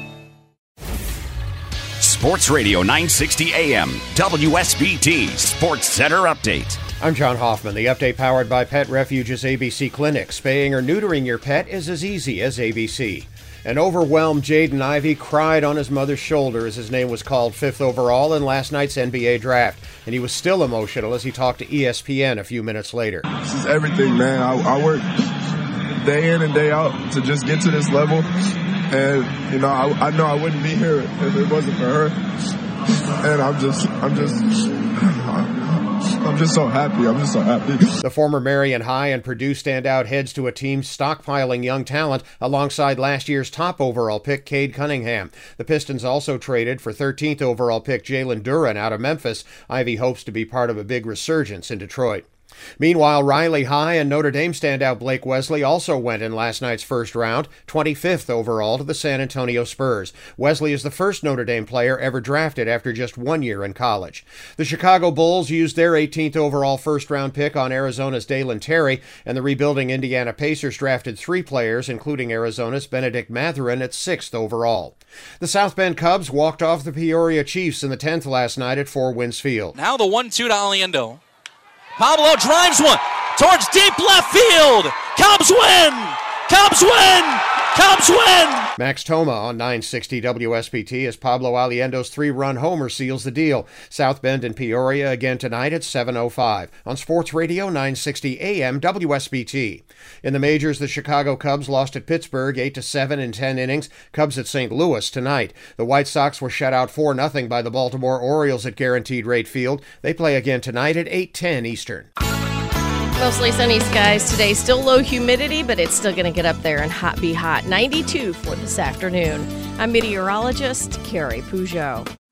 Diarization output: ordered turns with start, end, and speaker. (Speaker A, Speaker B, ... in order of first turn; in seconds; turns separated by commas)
Speaker A: 2.0-6.8, Speaker B: 7.0-23.3, Speaker C: 23.4-25.1, Speaker C: 26.0-28.3, Speaker C: 28.9-32.1, Speaker C: 33.2-37.9, Speaker B: 38.0-52.2, Speaker B: 52.8-79.7, Speaker D: 79.8-81.2, Speaker D: 82.0-88.7, Speaker B: 88.8-112.1, Speaker E: 113.2-122.1